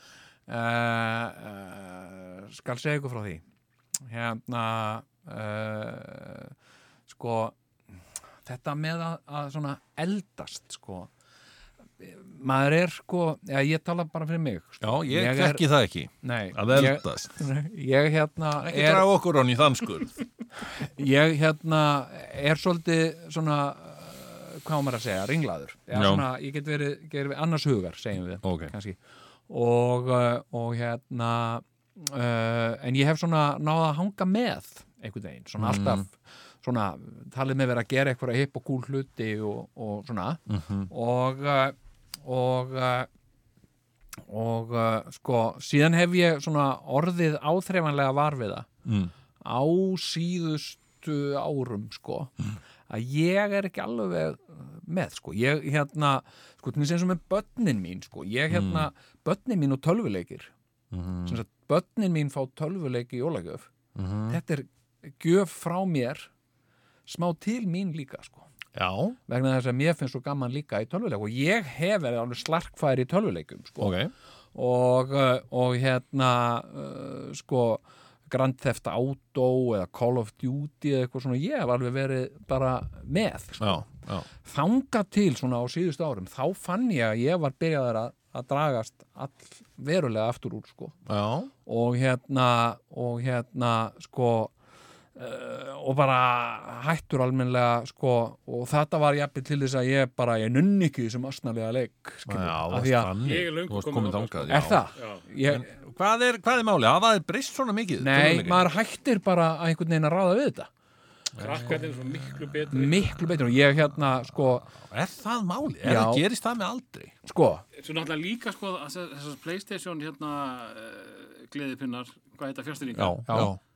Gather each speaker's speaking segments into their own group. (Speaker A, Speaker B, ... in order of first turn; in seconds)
Speaker A: 0.5-3.4, 4.1-6.5, 7.1-7.5, 8.4-11.1, 12.0-15.6, 16.2-19.1, 20.7-29.0, 29.5-43.1, 44.3-48.7, 49.4-52.3, 52.9-60.5, 61.2-63.7, 64.3-66.3, 67.1-68.5, 69.3-74.0, 74.5-91.0, 91.7-94.5, 95.1-103.2, 104.5-105.7, 108.0-110.7, 112.7-114.7, 115.8-116.2, 117.2-117.6, 123.3-123.5
Speaker B: 14.8-17.3, 18.6-20.1, 25.9-26.2, 28.4-28.7, 35.6-36.0, 40.5-40.9, 48.8-49.1, 58.5-58.9, 60.9-61.4, 63.9-64.4, 68.7-69.2, 73.8-74.1, 83.6-84.3, 91.0-91.5, 102.2-104.8, 105.4-108.7, 111.3-112.7, 114.6-117.2, 122.9-123.6
Speaker C: 103.2-105.2, 111.4-113.1, 117.8-123.5